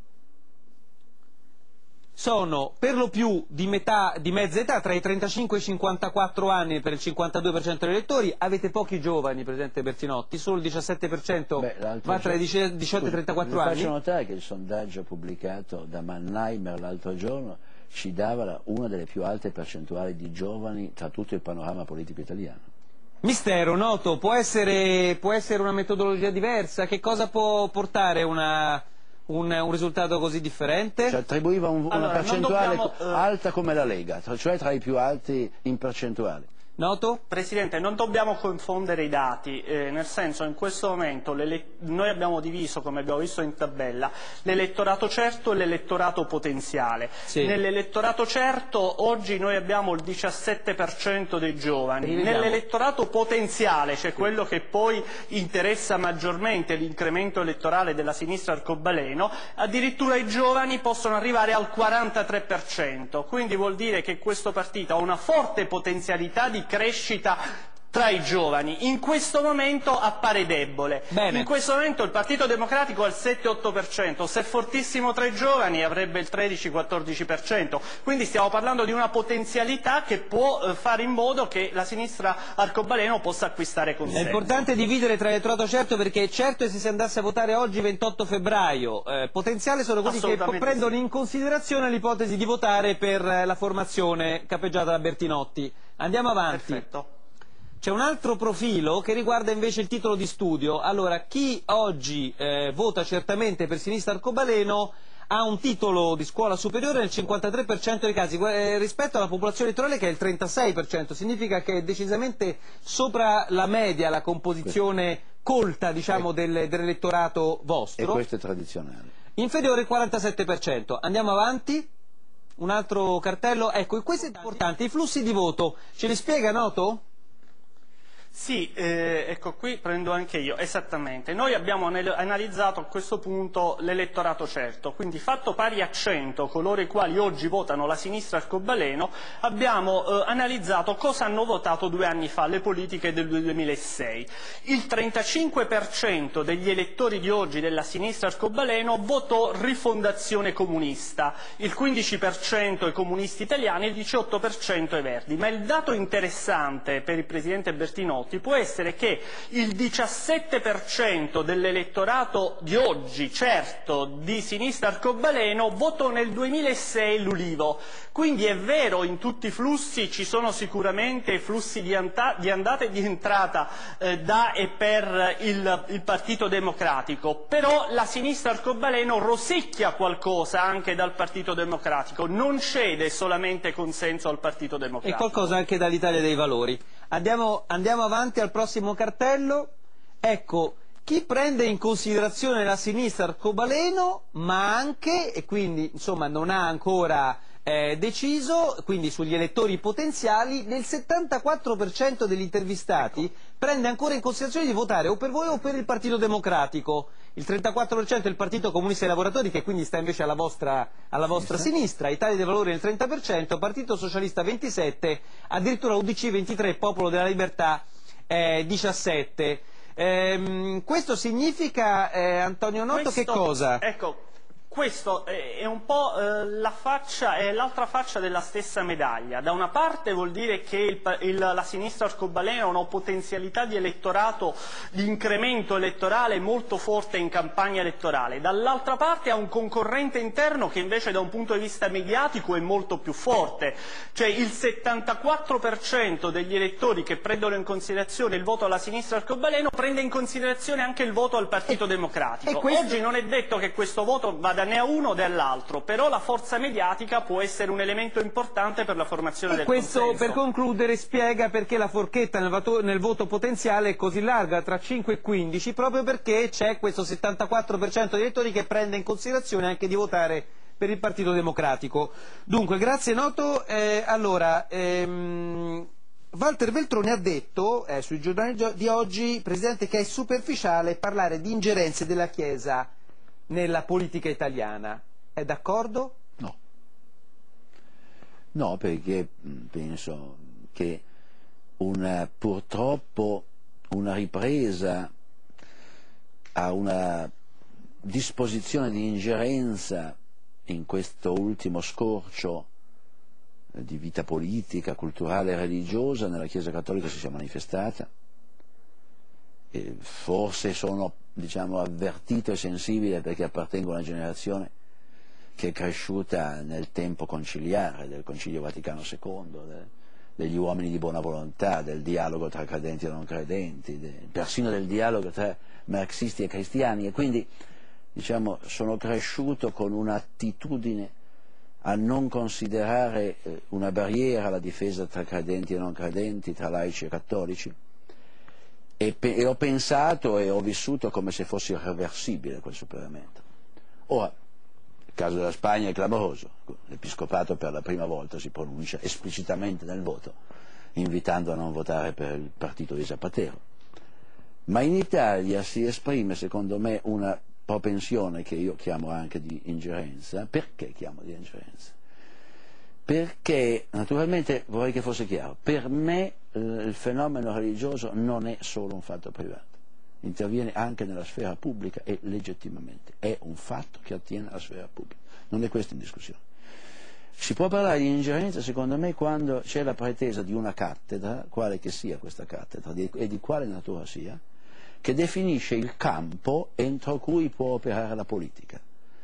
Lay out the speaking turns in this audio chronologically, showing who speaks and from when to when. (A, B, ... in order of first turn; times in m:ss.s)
0:02.2-0:13.9 A
0:11.6-0:12.4 B
0:13.0-0:22.6 B
0:23.2-0:31.2 A
0:31.0-0:36.5 B
0:31.9-0:33.2 C
0:36.8-0:37.2 A
0:37.3-1:07.4 C
0:47.3-0:47.6 A
0:52.0-0:52.6 A
1:07.9-1:24.7 C
1:11.1-1:11.5 A
1:24.1-1:36.8 A
1:30.0-1:31.0 C
1:36.5-1:37.1 C
1:37.8-1:58.2 A
1:58.0-1:59.1 B
1:59.4-2:01.9 A
2:02.6-2:07.0 A
2:08.3-3:05.4 C
3:05.0-3:09.7 A
3:10.2-3:43.8 A
3:31.3-3:31.7 B
3:42.9-4:20.4 C
4:12.4-4:13.0 A
4:19.5-4:42.9 A
4:43.5-4:46.1 A
4:48.5-4:51.0 B
4:51.8-4:55.1 B
4:56.5-4:57.3 B
4:58.0-5:00.1 B
5:00.7-5:02.7 B
5:03.7-5:08.1 B
5:09.7-5:14.7 B
5:15.6-5:27.5 B
5:28.1-5:31.1 B
5:31.8-5:37.7 B
5:39.0-5:43.4 B
5:45.1-5:50.4 B
5:51.0-5:53.6 B
5:54.7-6:01.9 B
6:03.0-6:16.4 B
6:17.4-6:24.4 B
6:25.0-6:28.8 B